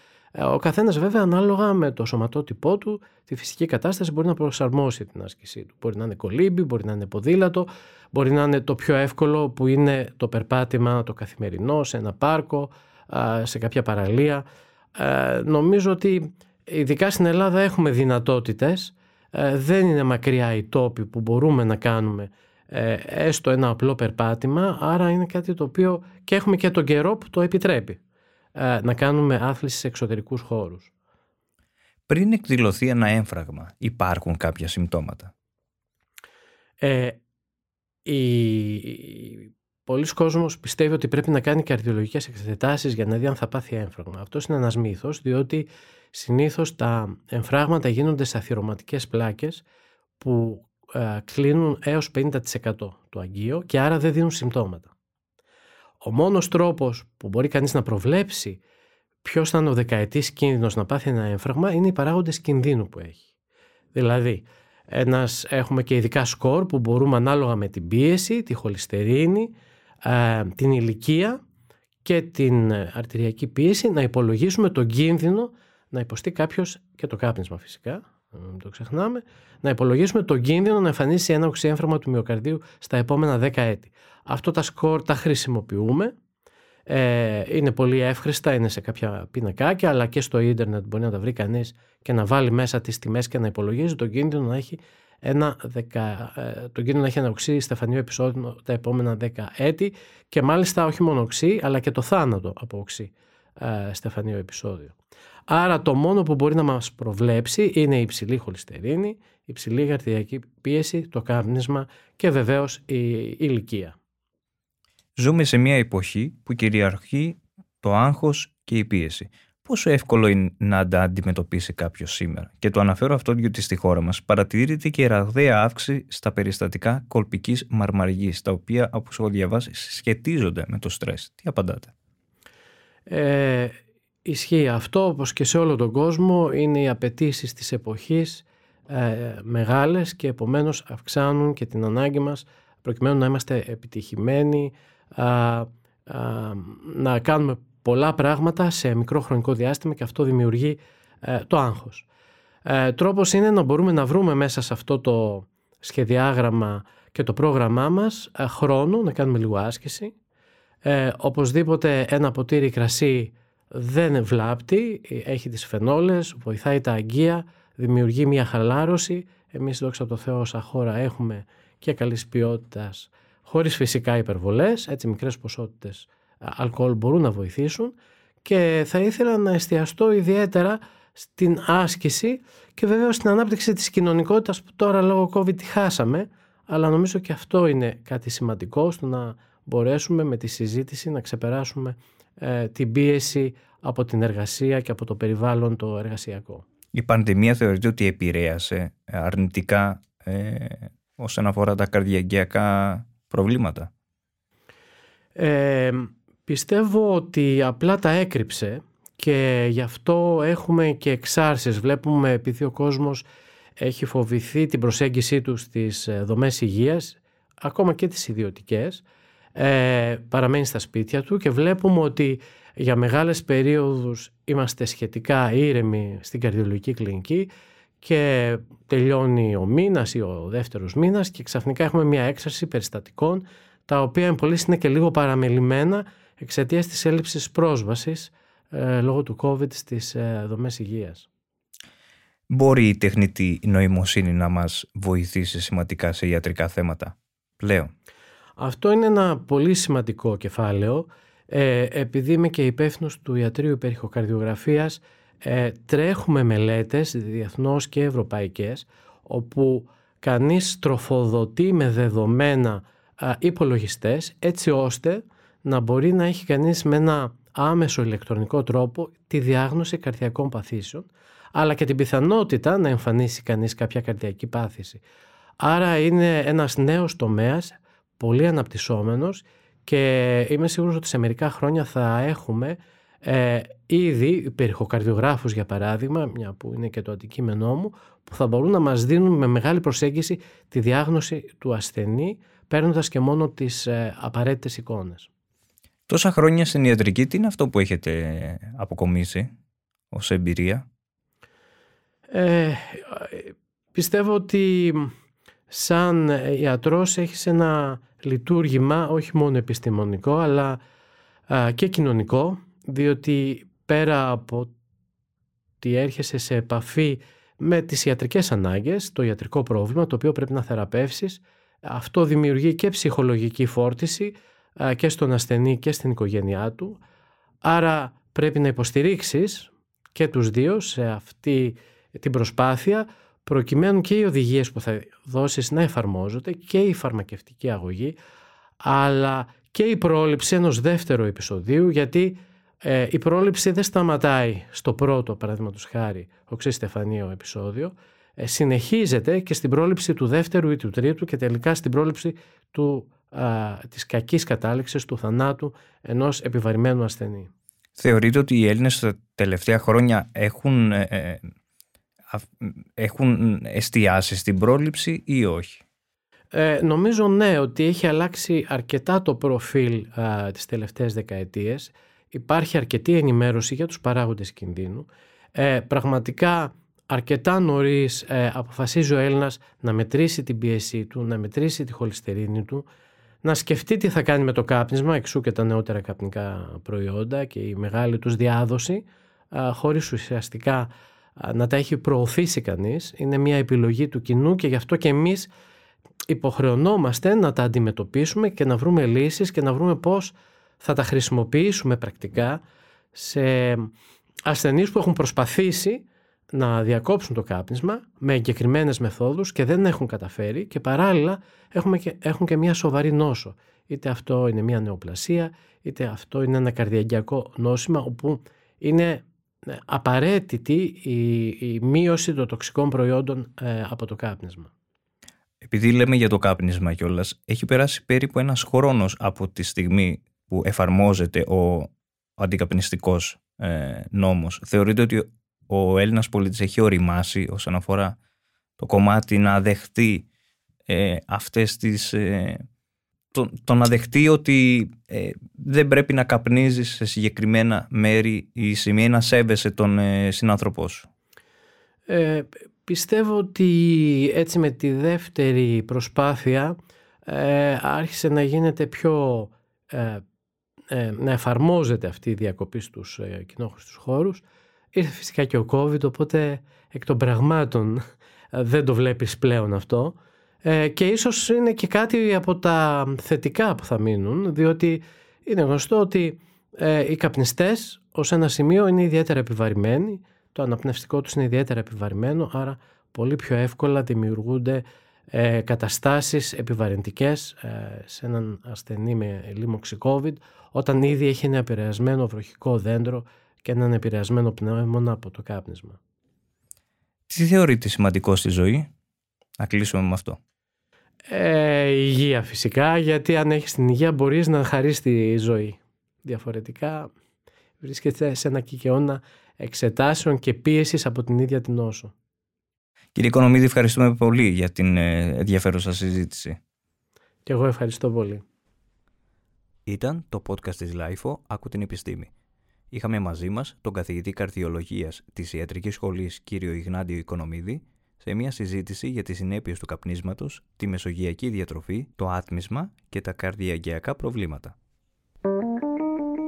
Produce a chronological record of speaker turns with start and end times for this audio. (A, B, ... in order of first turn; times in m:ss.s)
0:00.4-0:28.0 A
0:28.6-0:30.9 A
0:32.1-0:35.3 B
0:36.8-0:37.2 A
0:38.0-0:49.6 A
0:50.2-0:54.9 A
0:56.0-0:58.6 A
0:59.2-1:03.3 A
1:03.9-1:09.5 A
1:10.0-1:11.4 A
1:12.0-1:26.1 A
1:26.9-1:44.9 A
1:45.5-1:54.0 A
1:55.2-2:11.9 B
2:13.1-2:32.1 A
2:32.6-2:40.1 A
2:40.8-3:16.6 A
3:16.9-3:23.9 B
3:25.4-3:33.2 A
3:33.8-3:39.0 A
3:39.6-3:47.5 A
3:48.0-4:01.3 A
4:02.5-4:07.9 B
4:08.6-4:35.0 A
4:35.6-4:55.3 A
4:56.1-4:59.5 B
5:00.1-5:00.9 B
5:02.3-5:05.1 A
5:05.7-5:10.8 A
5:11.5-5:14.7 A
5:15.8-5:27.0 A
5:27.6-5:38.2 A
5:38.8-5:57.5 A
5:58.0-6:01.4 B
6:02.3-6:05.8 B
6:06.5-6:22.9 A
6:23.4-6:35.5 A
6:36.3-6:42.6 A
6:43.1-6:43.9 A
6:44.5-7:04.7 A
7:05.6-7:18.2 B
7:18.8-7:20.3 B
7:20.9-7:22.6 B
7:23.3-7:31.1 B
7:32.1-7:40.2 A
7:40.9-7:48.0 A
7:48.5-8:16.0 A
8:17.3-8:18.9 B
8:19.6-8:20.4 B
8:21.3-8:27.1 A
8:27.8-8:32.1 A
8:33.2-8:36.6 B
8:37.5-8:38.4 A
8:39.9-8:42.3 B
8:42.9-8:54.8 B